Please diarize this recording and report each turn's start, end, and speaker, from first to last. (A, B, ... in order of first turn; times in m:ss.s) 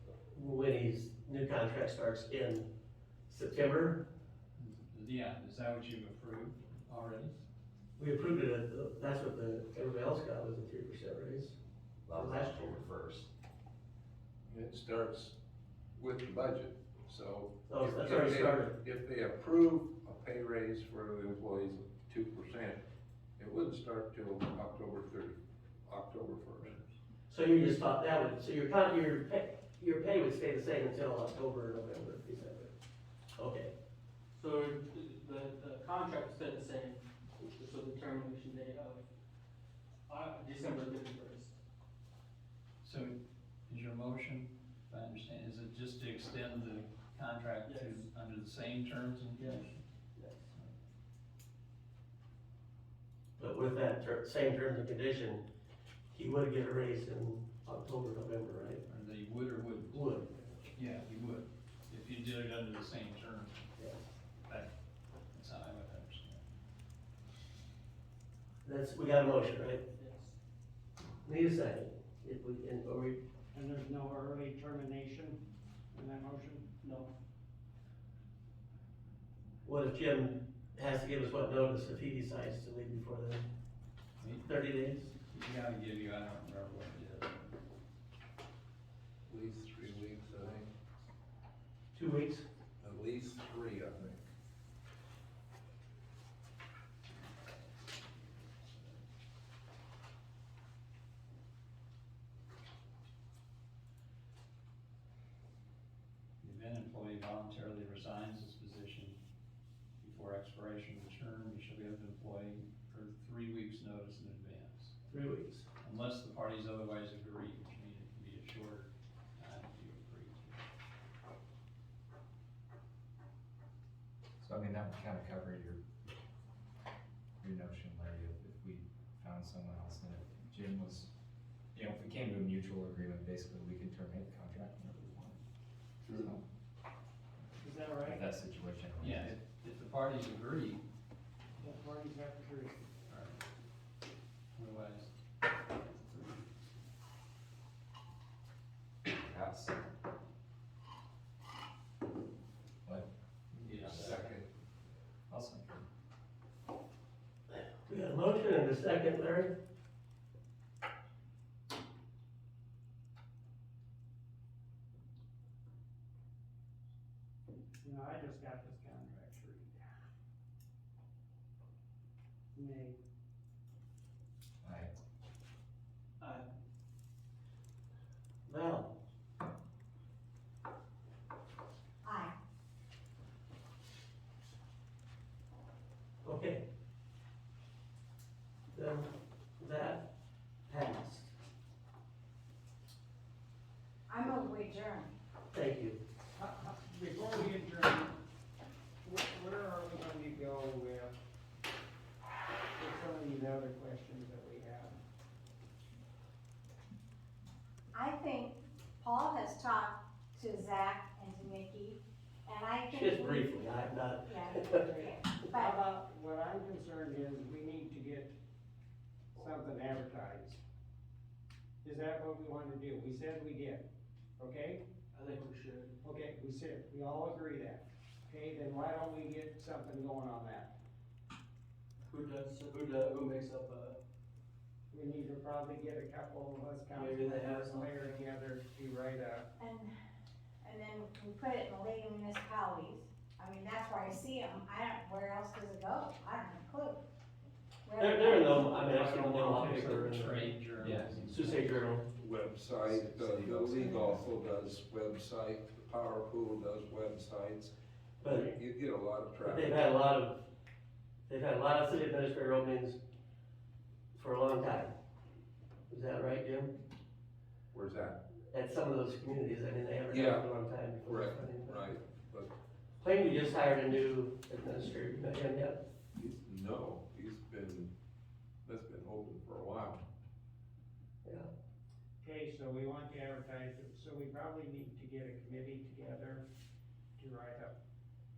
0:00.3-0:02.7 A
0:03.3-0:04.0 A
0:04.6-0:07.3 B
0:08.0-0:11.6 A
0:12.1-0:12.9 A
0:14.5-0:15.3 C
0:16.0-0:22.8 C
0:17.7-0:18.7 A
0:23.4-0:26.9 C
0:27.3-0:32.7 A
0:33.4-0:33.7 A
0:34.3-0:39.0 D
0:40.1-0:41.6 D
0:42.8-0:43.2 B
0:43.7-0:49.7 B
0:47.6-0:48.1 D
0:49.4-0:50.5 D
0:53.4-0:55.4 A
0:56.1-0:58.8 A
0:58.9-1:00.1 B
0:59.9-1:00.4 A
1:00.8-1:03.7 B
1:03.8-1:04.0 A
1:05.3-1:06.4 B
1:08.6-1:09.8 A
1:10.0-1:10.4 D
1:11.2-1:13.2 A
1:13.5-1:16.7 E
1:16.8-1:17.1 D
1:19.6-1:23.4 A
1:24.2-1:24.5 B
1:24.5-1:25.1 A
1:25.3-1:27.5 B
1:29.3-1:30.7 C
1:32.0-1:32.4 A
1:32.8-1:34.2 C
1:46.4-1:49.2 B
1:50.0-1:55.0 B
1:55.1-1:55.6 A
1:55.8-2:00.6 B
2:04.4-2:05.8 F
2:07.4-2:11.1 F
2:11.7-2:15.4 F
2:16.1-2:16.4 F
2:17.6-2:18.2 E
2:18.0-2:19.3 F
2:19.0-2:20.8 B
2:21.6-2:22.9 E
2:23.1-2:23.4 B
2:24.6-2:25.1 B
2:25.8-2:26.4 B
2:29.1-2:29.9 F
2:32.8-2:34.4 F
2:33.6-2:34.2 B
2:33.9-2:34.4 C
2:35.3-2:35.9 F
2:37.8-2:39.6 A
2:47.8-2:49.9 E
2:52.6-2:53.0 E
2:54.6-2:54.9 F
2:56.2-2:56.4 D
2:58.5-2:58.9 A
3:02.0-3:02.3 G
3:06.2-3:06.6 A
3:08.7-3:09.1 A
3:09.6-3:10.1 A
3:10.7-3:11.3 A
3:14.1-3:15.1 G
3:15.5-3:16.0 A
3:16.4-3:18.2 E
3:19.0-3:21.2 E
3:22.8-3:25.0 E
3:27.9-3:33.6 G
3:32.9-3:34.8 A
3:34.2-3:35.8 G
3:34.8-3:38.4 E
3:39.4-3:40.6 E
3:41.8-3:43.9 E
3:44.4-3:44.8 E
3:45.1-3:45.9 D
3:46.0-3:50.7 E
3:52.1-3:54.0 D
3:54.9-3:59.5 E
3:57.0-3:58.2 D
3:59.6-3:59.9 G
4:00.6-4:07.0 G
4:07.8-4:08.9 G
4:08.0-4:10.5 A
4:08.9-4:09.8 E
4:09.4-4:11.8 B
4:10.8-4:11.2 F
4:11.3-4:12.0 A
4:12.2-4:17.7 C
4:12.8-4:14.2 F
4:18.2-4:18.5 A
4:18.4-4:19.9 C
4:19.4-4:20.4 A
4:21.3-4:23.0 A
4:24.1-4:24.9 A
4:25.9-4:26.7 A
4:27.7-4:28.2 C
4:28.5-4:31.9 A
4:30.1-4:30.5 C
4:31.0-4:32.5 C
4:33.0-4:35.8 A
4:36.1-4:37.9 C
4:38.6-4:40.0 C
4:41.2-4:41.5 A
4:42.2-4:46.4 E
4:47.2-4:47.8 E